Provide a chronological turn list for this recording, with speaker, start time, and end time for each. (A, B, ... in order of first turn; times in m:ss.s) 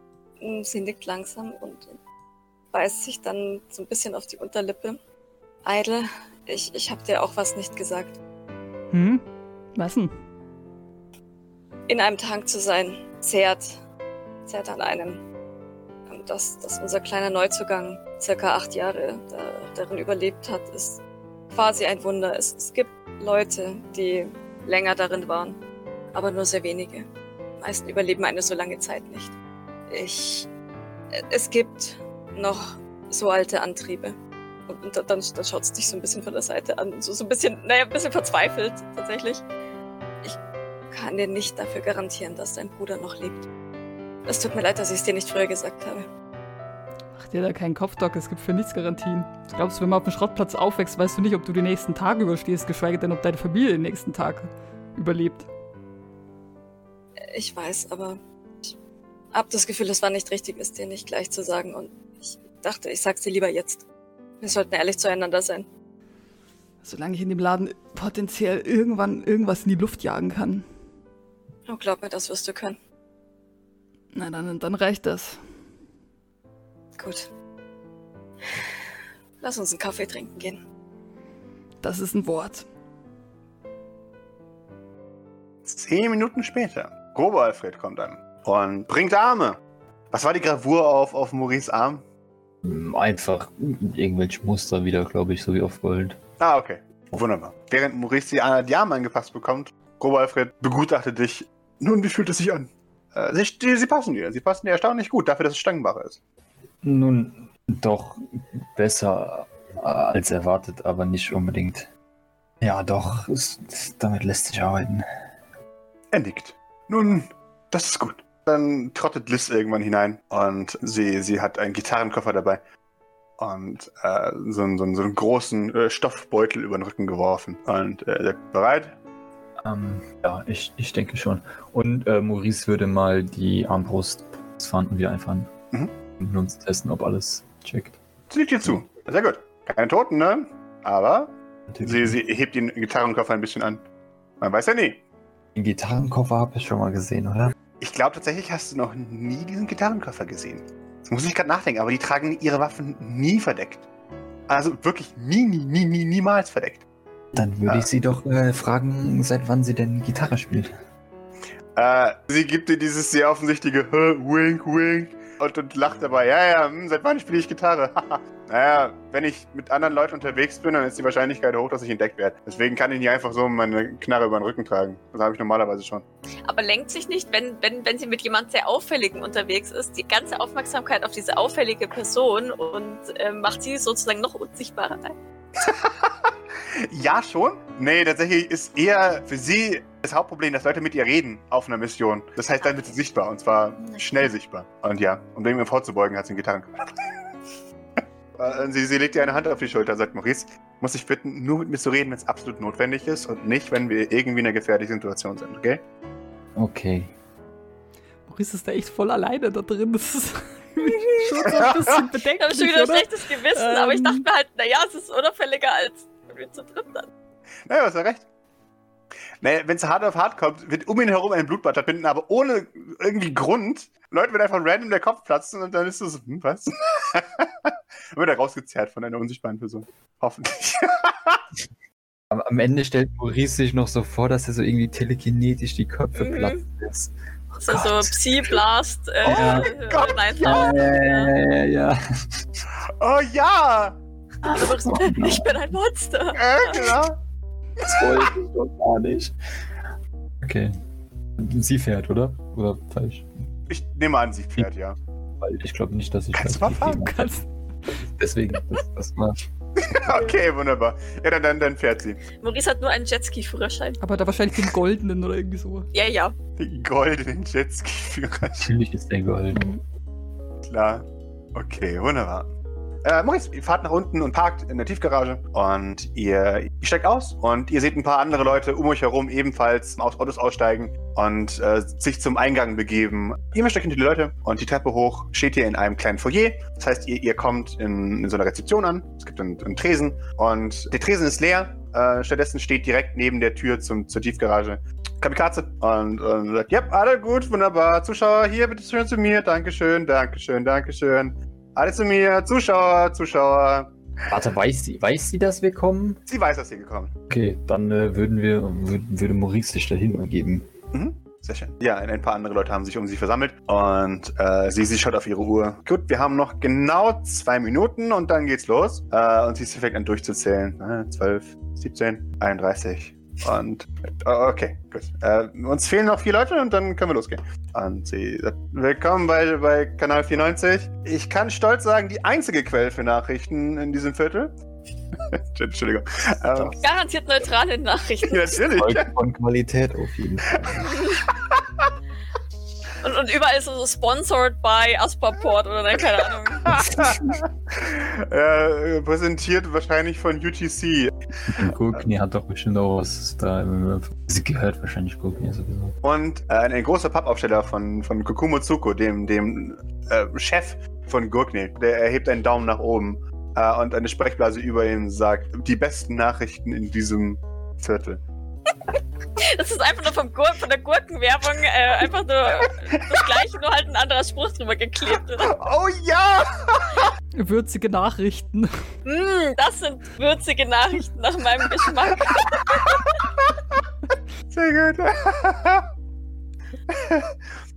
0:00.4-0:02.0 A
0:02.7-0:05.0 A
0:05.6-0:08.2 A
0:08.9-0:09.2 B
0:09.8-0:10.1 B
0:11.9-0:13.8 A
0:14.5-0:15.2 A
0:16.1-0:25.6 A
0:26.1-0:27.1 A
0:27.6-0:29.4 A
0:29.9-0:30.5 A
0:31.1-0:39.4 A
0:40.9-0:43.5 A
0:44.3-0:46.1 A
0:47.2-0:55.5 B
0:57.2-0:58.8 A
0:59.3-1:03.8 A
1:04.4-1:05.7 A
1:06.8-1:10.7 B
1:11.7-1:12.8 A
1:14.1-1:15.4 B
1:17.0-1:17.3 A
1:19.4-1:20.6 A
1:21.8-1:22.7 B
1:25.6-1:29.6 C
1:30.1-1:32.0 C
1:32.6-1:36.2 D
1:36.4-1:46.2 C
1:46.8-1:51.9 D
1:52.6-1:55.1 D
1:56.1-2:02.6 C
2:03.4-2:09.0 C
2:09.6-2:15.5 D
2:16.2-2:18.0 D
2:18.3-2:23.8 C
2:21.7-2:22.2 D
2:24.4-2:25.0 C
2:25.6-2:27.6 D
2:27.8-2:33.9 C
2:34.5-2:36.8 C
2:37.3-2:40.7 D
2:41.8-2:56.0 C
2:56.4-3:05.2 A
3:05.6-3:17.2 C
3:18.4-3:25.8 C
3:26.6-3:27.1 D
3:28.3-3:34.2 B
3:31.4-3:32.0 C
3:32.4-3:37.1 A
3:37.7-3:38.3 C
3:39.4-3:51.4 C
3:52.3-3:58.6 D
3:56.2-3:56.6 A
3:57.6-4:01.3 A
3:59.2-3:59.7 D
3:59.2-4:00.6 C
4:00.4-4:02.6 D
4:03.0-4:04.0 C
4:04.4-4:05.6 D
4:04.5-4:07.0 A
4:06.4-4:07.2 C
4:07.8-4:09.4 D
4:10.4-4:10.7 D
4:11.4-4:13.3 D
4:13.7-4:15.0 C
4:15.4-4:17.3 D
4:16.3-4:17.1 C
4:17.0-4:17.5 B
4:17.9-4:19.4 D
4:19.8-4:22.2 C
4:22.4-4:24.0 A
4:24.0-4:25.9 B
4:25.9-4:26.4 A
4:26.6-4:28.7 C
4:28.6-4:29.8 D
4:30.6-4:32.5 C
4:33.0-5:03.9 C
5:04.3-5:06.2 D
5:06.3-5:07.1 C
5:07.3-5:10.7 D
5:10.9-5:34.5 C
5:35.3-5:36.8 C
5:36.8-5:38.7 A
5:38.2-5:39.1 C
5:38.7-5:40.9 D
5:40.7-5:41.9 C
5:43.0-5:46.8 A
5:46.6-5:51.2 C
5:46.7-5:47.4 D
5:51.5-5:56.0 D
5:56.0-6:08.2 C
6:09.4-6:15.5 A
6:15.4-6:17.1 C
6:17.4-6:18.7 B
6:19.0-6:23.2 A
6:22.3-6:23.5 C
6:24.5-6:25.9 C
6:26.9-6:27.4 C